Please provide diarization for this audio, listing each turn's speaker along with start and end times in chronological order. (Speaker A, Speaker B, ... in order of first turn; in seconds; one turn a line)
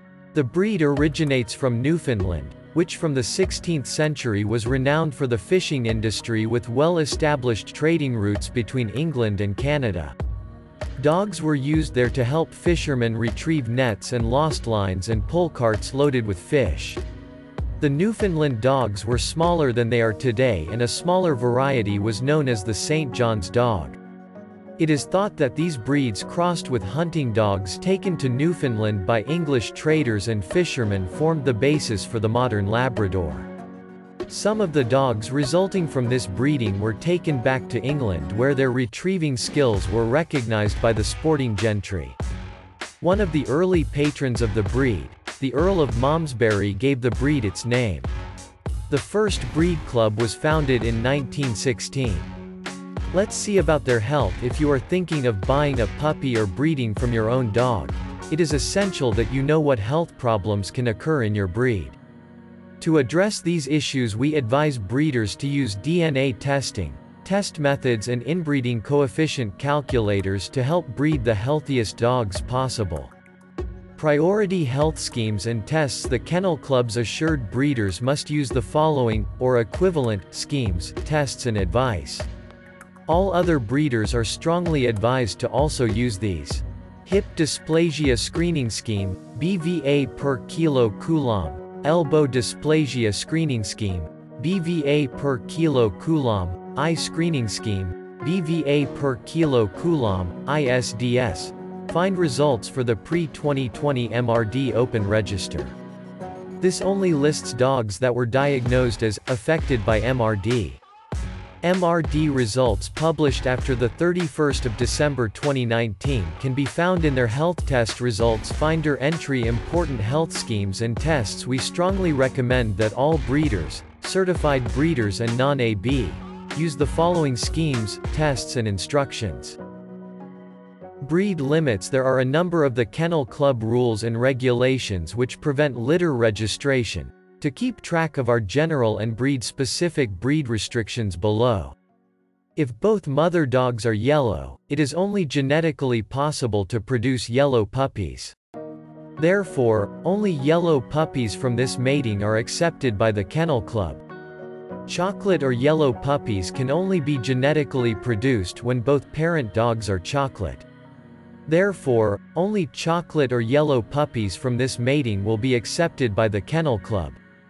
Speaker A: 0.3-10.2
Speaker A: 11.0-17.0
Speaker A: 17.8-24.0
Speaker A: 24.8-33.5
Speaker A: 34.3-42.2
Speaker A: 43.0-48.1
Speaker A: 48.9-52.3
Speaker A: 53.1-62.0
Speaker A: 62.8-73.1
Speaker A: 74.0-82.3
Speaker A: 83.1-105.8
Speaker A: 106.6-110.8
Speaker A: 111.6-129.6
Speaker A: 131.0-141.8
Speaker A: 142.6-148.3
Speaker A: 149.2-154.0
Speaker A: 154.8-160.7
Speaker A: 161.5-167.2